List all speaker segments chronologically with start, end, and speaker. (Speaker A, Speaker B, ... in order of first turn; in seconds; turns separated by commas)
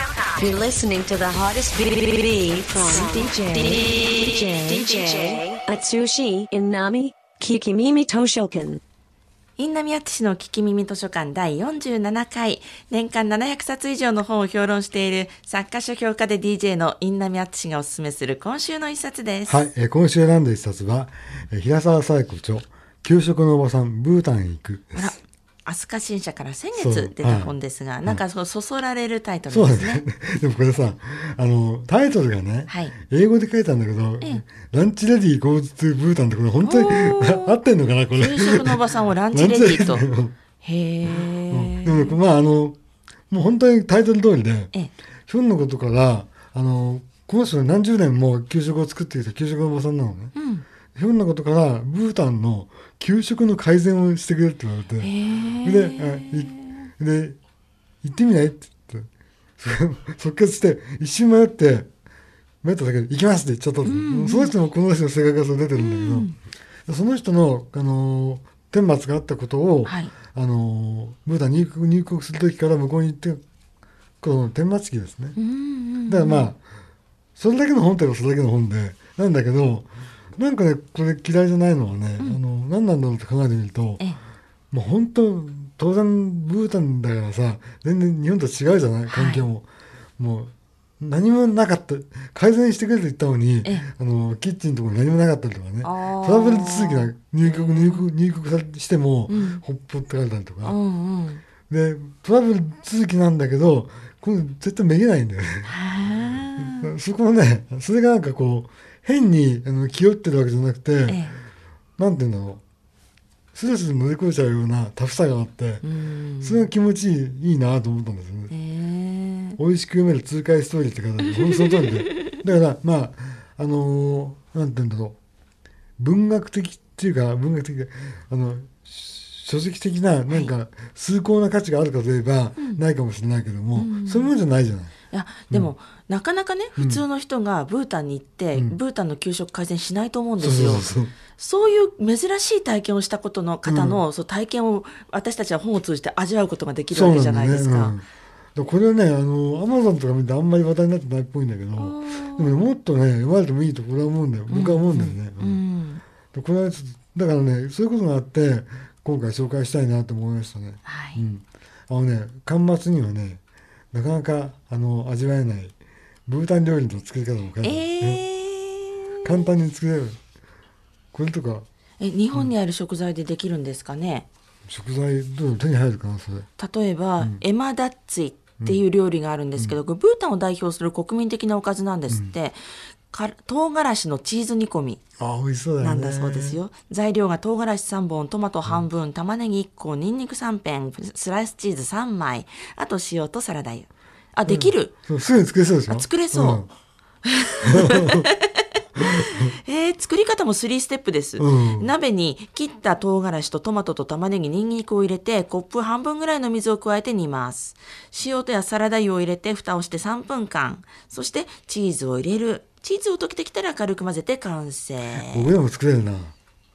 Speaker A: 0.4-8.8, Speaker B: 9.6-19.6, Speaker C: 19.4-25.1, Speaker B: 24.9-30.0, Speaker C: 26.7-28.2, Speaker C: 29.5-40.3, Speaker B: 32.7-32.9, Speaker B: 36.6-37.6, Speaker B: 38.1-40.1, Speaker B: 40.6-42.2, Speaker C: 41.1-42.8, Speaker C: 43.3-44.7, Speaker C: 45.3-50.3, Speaker B: 50.3-50.6, Speaker C: 50.9-57.4, Speaker B: 55.0-56.9, Speaker C: 58.0-61.9, Speaker C: 62.6-66.3, Speaker B: 63.8-64.5, Speaker B: 65.7-66.3, Speaker C: 66.9-73.4, Speaker B: 69.8-70.1, Speaker C: 74.2-75.4, Speaker B: 75.3-76.5, Speaker C: 76.0-76.6, Speaker C: 77.4-84.1, Speaker C: 84.7-89.7, Speaker B: 89.1-89.5, Speaker C: 90.2-100.8, Speaker B: 95.8-98.1, Speaker B: 99.3-99.6, Speaker B: 100.6-101.4, Speaker C: 101.7-105.7, Speaker B: 105.6-106.9, Speaker C: 106.6-111.3, Speaker B: 111.1-111.3, Speaker C: 112.0-112.6, Speaker C: 113.5-115.9, Speaker B: 115.8-116.7, Speaker C: 116.4-118.5, Speaker B: 118.5-119.6, Speaker C: 119.6-125.2, Speaker B: 121.3-122.3, Speaker C: 126.0-134.9, Speaker B: 132.6-132.8, Speaker B: 133.8-134.3, Speaker B: 135.1-148.0, Speaker C: 136.8-137.0, Speaker C: 140.4-141.1, Speaker C: 143.6-144.0, Speaker C: 146.9-155.6, Speaker B: 151.8-152.7, Speaker B: 154.5-156.0, Speaker C: 156.3-163.4, Speaker B: 160.8-161.2, Speaker C: 163.9-165.7, Speaker C: 166.2-168.2, Speaker B: 167.6-169.5, Speaker C: 169.2-170.2, Speaker C: 171.1-171.7, Speaker B: 172.0-174.3, Speaker C: 174.7-176.5, Speaker B: 176.6-182.6, Speaker C: 182.1-182.3, Speaker B: 183.1-185.0, Speaker C: 185.2-186.6, Speaker B: 185.8-194.9, Speaker C: 194.5-196.7, Speaker B: 195.9-196.7, Speaker B: 197.2-215.5, Speaker C: 197.7-198.3, Speaker C: 199.0-199.5, Speaker C: 201.4-201.9, Speaker C: 215.1-216.3